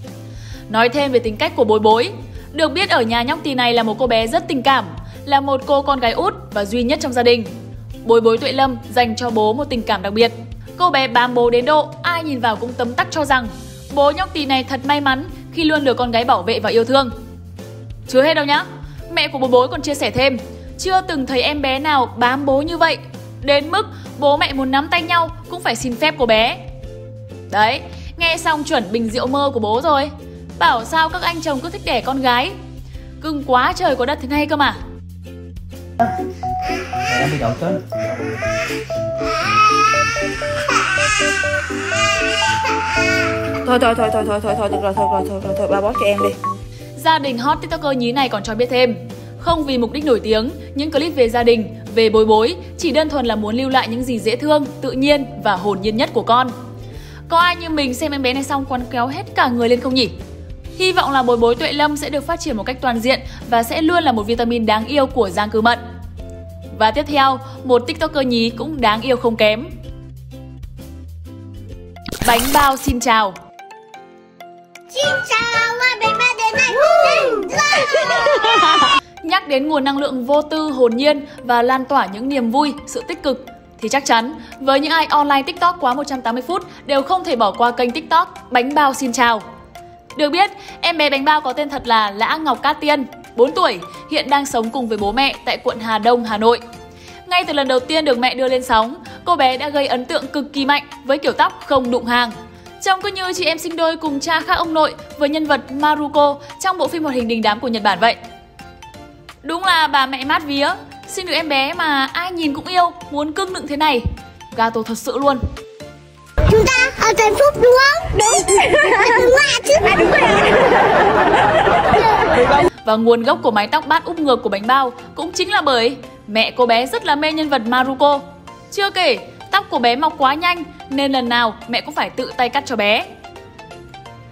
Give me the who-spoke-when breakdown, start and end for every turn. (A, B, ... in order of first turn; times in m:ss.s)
0:00.7-0:07.5 A
0:08.0-0:17.1 A
0:18.1-0:26.6 A
0:27.5-0:32.5 A
0:33.2-0:34.8 A
0:37.1-0:37.8 B
0:43.6-0:46.4 B
0:47.0-0:56.5 A
0:57.3-1:00.1 A
1:00.8-1:05.8 A
1:06.7-1:09.7 A
1:12.2-1:13.4 A
1:14.9-1:18.8 C
1:19.2-1:29.4 A
1:30.1-1:36.6 A
1:37.2-1:48.2 A
1:49.4-1:55.4 A
1:56.4-2:00.9 C
2:02.8-2:13.0 A